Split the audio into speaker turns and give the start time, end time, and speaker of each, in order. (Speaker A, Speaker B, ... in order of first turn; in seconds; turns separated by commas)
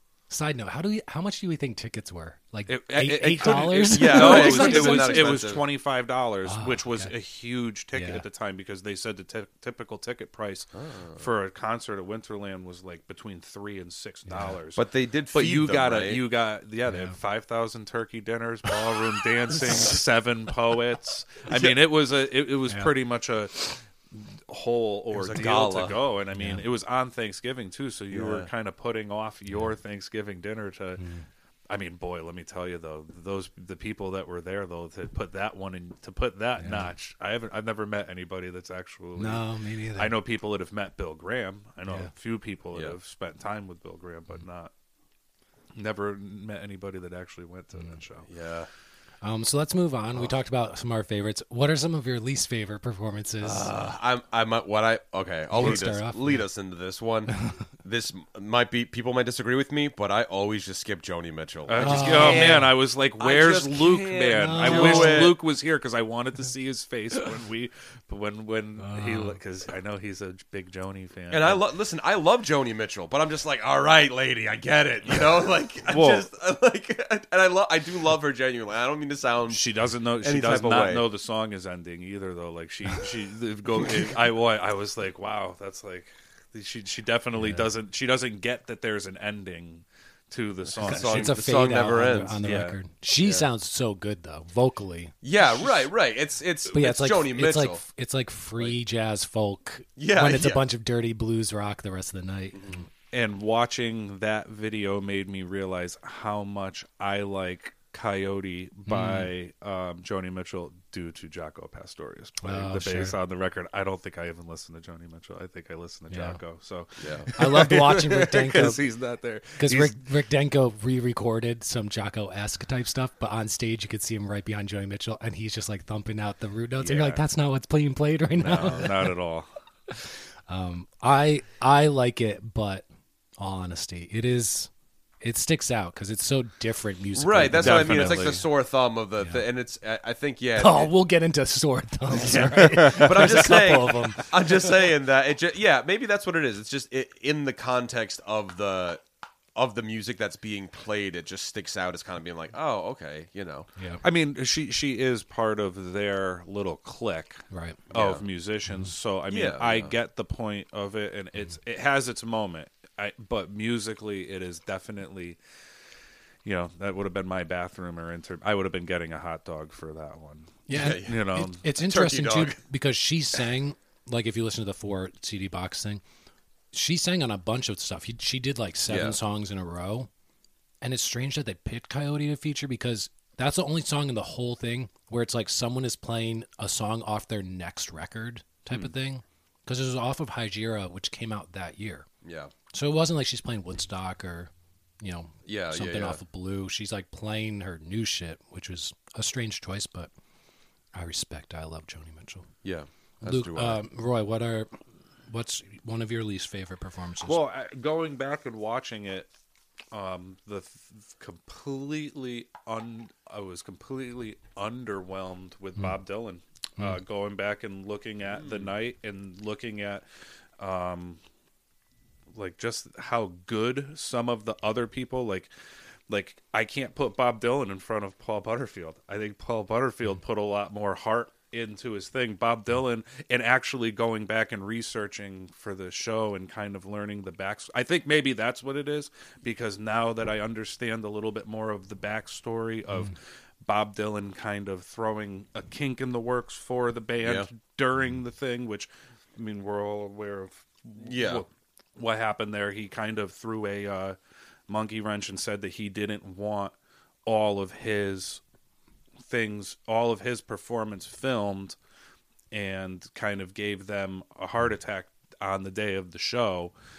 Speaker A: 0.3-5.4, Speaker B: 2.7-14.8, Speaker C: 3.4-5.7, Speaker A: 6.4-7.1, Speaker A: 7.9-8.2, Speaker C: 10.7-11.2, Speaker A: 14.2-14.6, Speaker C: 14.7-16.2, Speaker B: 15.3-31.1, Speaker A: 16.9-17.2, Speaker C: 25.1-26.0, Speaker A: 26.4-26.6, Speaker C: 28.1-28.5, Speaker A: 31.0-31.2, Speaker B: 31.7-44.7, Speaker A: 36.6-36.9, Speaker A: 39.2-40.1, Speaker B: 45.7-48.3, Speaker C: 48.3-48.7, Speaker A: 49.2-53.7, Speaker C: 53.4-62.7, Speaker A: 55.5-56.3, Speaker A: 57.3-57.6, Speaker B: 61.7-71.6, Speaker A: 61.8-62.7, Speaker C: 63.2-65.3, Speaker A: 64.2-65.3, Speaker A: 68.8-69.4, Speaker C: 71.3-79.7, Speaker B: 75.9-76.2, Speaker B: 79.5-91.5, Speaker C: 80.2-81.0, Speaker C: 83.8-84.1, Speaker A: 87.4-87.7, Speaker C: 90.7-92.6, Speaker A: 90.8-95.1, Speaker B: 92.4-92.8, Speaker C: 95.2-97.8, Speaker A: 96.7-102.9, Speaker C: 100.0-100.7, Speaker C: 102.5-102.8, Speaker B: 103.1-120.0, Speaker A: 108.9-109.3, Speaker A: 112.4-113.2, Speaker A: 116.1-116.4, Speaker C: 117.0-117.3, Speaker A: 117.3-118.8, Speaker A: 119.6-129.1, Speaker B: 126.8-127.2, Speaker B: 128.4-129.5, Speaker A: 129.9-132.9, Speaker A: 133.4-134.7, Speaker A: 135.2-138.4, Speaker C: 137.2-140.9, Speaker B: 137.6-138.4, Speaker A: 140.6-144.3, Speaker C: 142.1-149.0, Speaker B: 142.2-144.3, Speaker C: 149.5-153.7, Speaker A: 153.8-154.0, Speaker B: 154.0-165.4, Speaker A: 157.5-157.8, Speaker C: 157.9-158.2, Speaker C: 159.3-159.9, Speaker B: 166.4-171.6, Speaker A: 170.7-176.0, Speaker C: 170.7-172.6, Speaker A: 176.7-180.1, Speaker C: 178.9-179.2, Speaker A: 180.8-192.1, Speaker C: 192.2-192.5, Speaker A: 192.7-200.1, Speaker C: 195.4-196.2, Speaker A: 200.9-202.5, Speaker C: 202.6-203.8, Speaker A: 203.2-207.4, Speaker B: 207.2-209.3, Speaker B: 209.9-220.0, Speaker B: 220.6-221.2, Speaker B: 222.3-225.5, Speaker B: 226.1-254.2, Speaker C: 251.0-251.4, Speaker B: 254.7-256.7, Speaker B: 257.2-258.4, Speaker B: 259.3-261.8, Speaker B: 262.5-266.7